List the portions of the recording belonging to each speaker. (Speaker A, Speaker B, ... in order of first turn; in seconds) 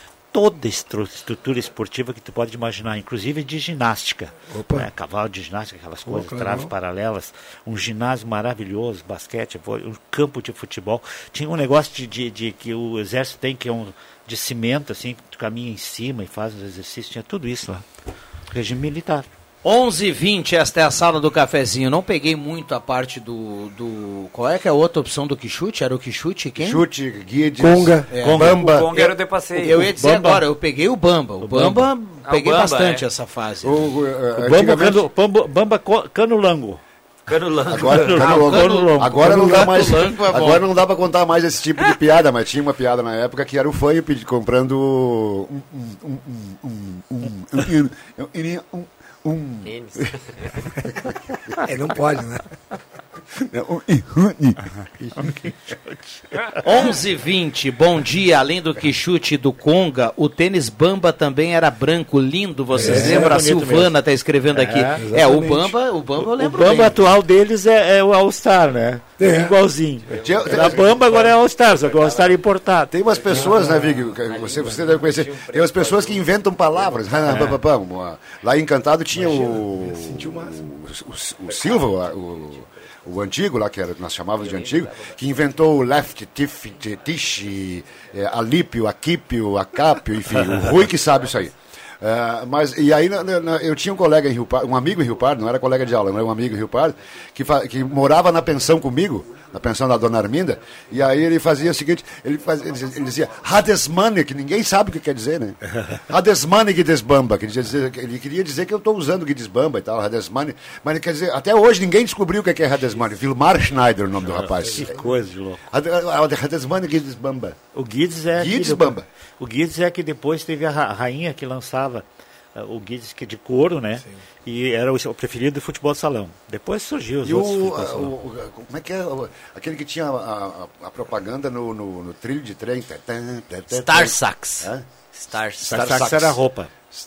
Speaker A: 0.3-17.9, 18.5-19.3, 28.2-28.9, 29.6-30.4, 31.4-31.9, 34.4-36.8, 37.7-39.7, 55.2-56.8, 62.8-63.9, 64.5-65.0, 66.2-72.9, 77.3-77.6, 114.2-115.6, 117.7-128.1, 135.7-136.7
Speaker B: 4.5-4.9, 6.1-6.7, 27.6-28.1, 39.2-39.9, 51.6-52.5, 62.7-63.4, 65.0-65.7, 69.2-69.5, 73.3-74.1, 79.1-80.7, 114.6-115.1
Speaker C: 19.6-26.8, 28.1-29.1, 29.6-33.8, 38.2-39.0, 39.5-40.6, 56.6-67.0
Speaker D: 26.6-28.9, 33.6-35.0, 37.7-50.1, 53.5-55.1, 70.2-71.2, 72.9-115.0, 115.7-117.6, 118.4-119.0, 127.2-134.8, 135.6-136.4
Speaker E: 28.4-29.8, 32.2-33.0, 37.3-38.6, 49.6-50.5, 70.1-71.2, 71.7-72.4, 73.2-73.5, 74.2-77.5, 81.5-82.2, 84.4-85.2, 133.7-135.9